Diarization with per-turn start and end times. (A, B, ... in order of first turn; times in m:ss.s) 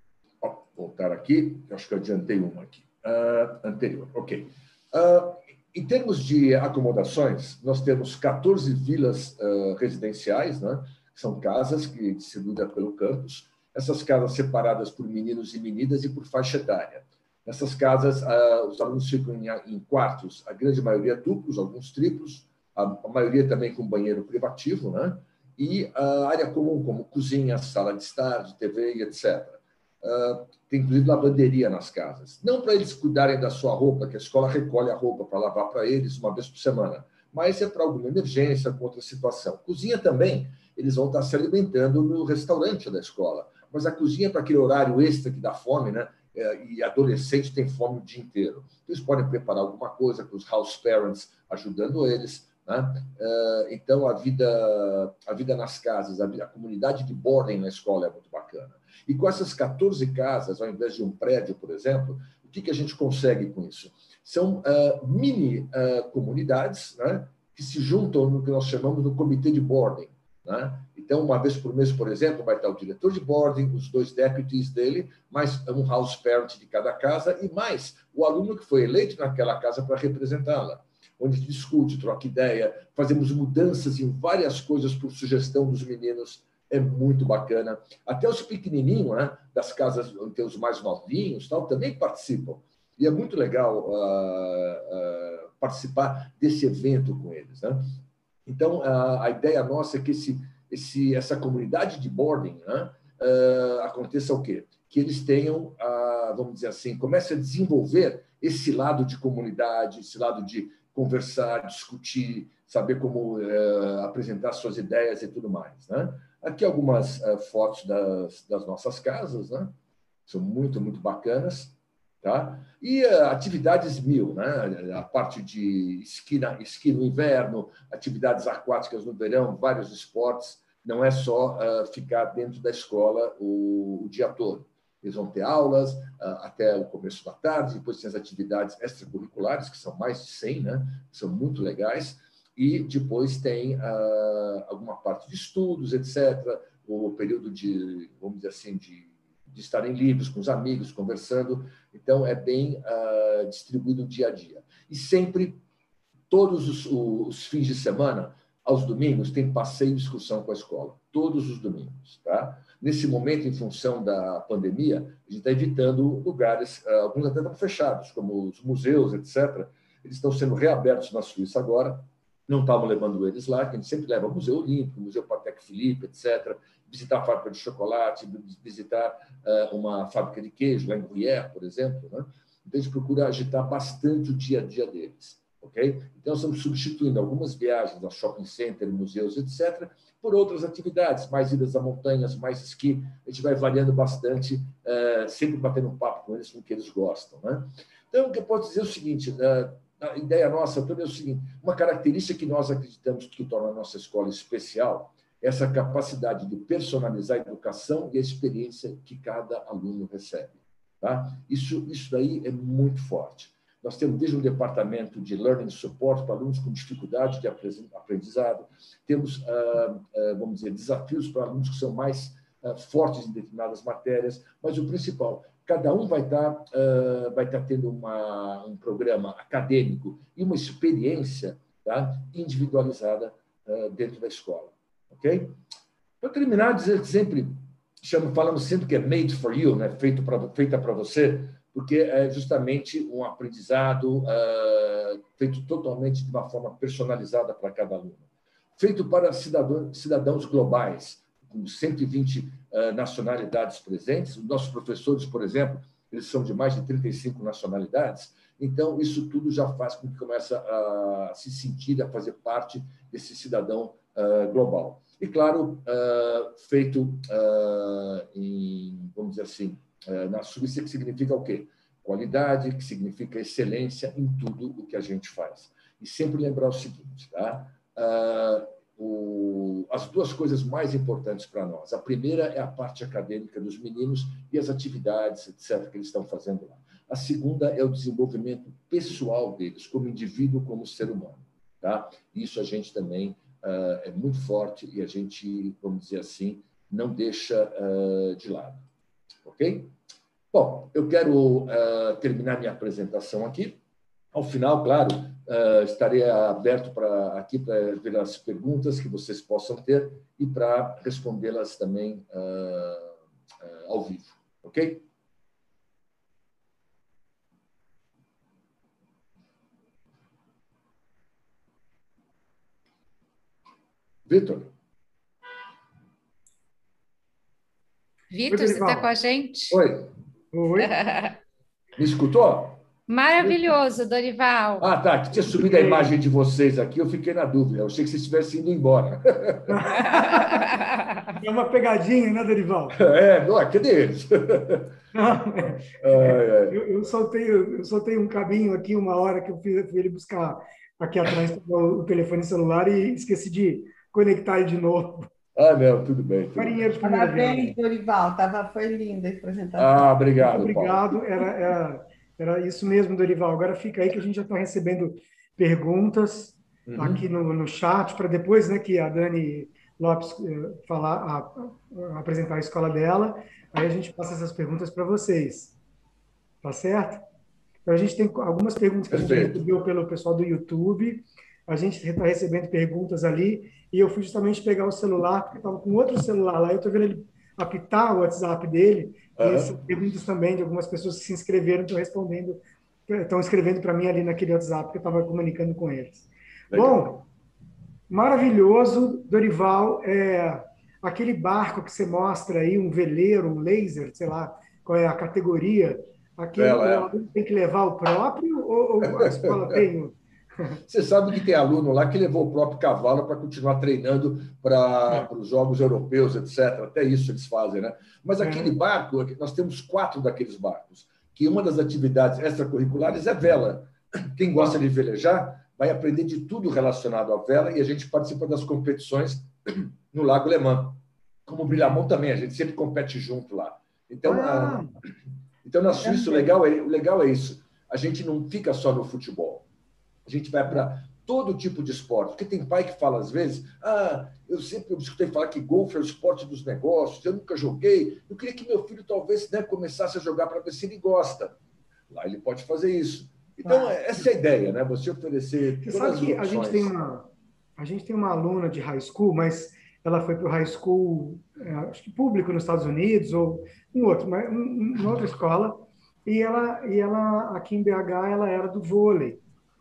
0:00.4-1:37.9 A
1:38.4-1:59.8 A
2:00.3-2:35.6 A
2:36.3-3:55.6 A
3:56.2-4:08.2 A
4:08.8-4:58.8 A
4:59.4-4:59.9 A
5:00.5-5:03.8 A
5:04.3-5:15.0 A
5:24.2-5:24.7 A
5:28.3-5:29.8 B
5:28.5-5:29.1 C
5:29.7-5:30.1 A
5:30.5-5:30.9 C
5:30.8-5:31.4 B
5:32.0-5:32.9 A
5:33.1-5:34.9 B
5:34.8-5:39.8 A
5:35.4-5:36.1 C
5:39.7-5:40.6 C
5:40.2-5:40.6 B
5:41.3-5:43.0 C
5:42.9-5:45.4 A
5:45.1-5:55.3 C
5:45.9-5:46.8 A
5:55.5-5:56.8 A
5:56.6-5:57.7 C
5:57.0-6:00.1 D
5:59.8-6:01.0 A
6:00.4-6:15.7 C
6:06.8-6:07.2 A
6:16.6-6:17.2 C
6:17.8-6:37.2 C
6:19.1-6:19.6 A
6:29.4-6:29.8 A
6:36.7-6:37.2 A
6:38.1-6:50.8 C
6:46.6-6:47.1 A
6:49.0-6:49.8 A
6:50.9-7:14.9 A
6:58.4-6:58.7 C
7:14.2-7:14.9 C
7:15.6-7:19.7 A
7:16.0-7:16.5 D
7:20.2-7:31.6 A
7:32.1-7:36.9 A
7:33.6-7:33.9 D
7:35.8-7:49.4 C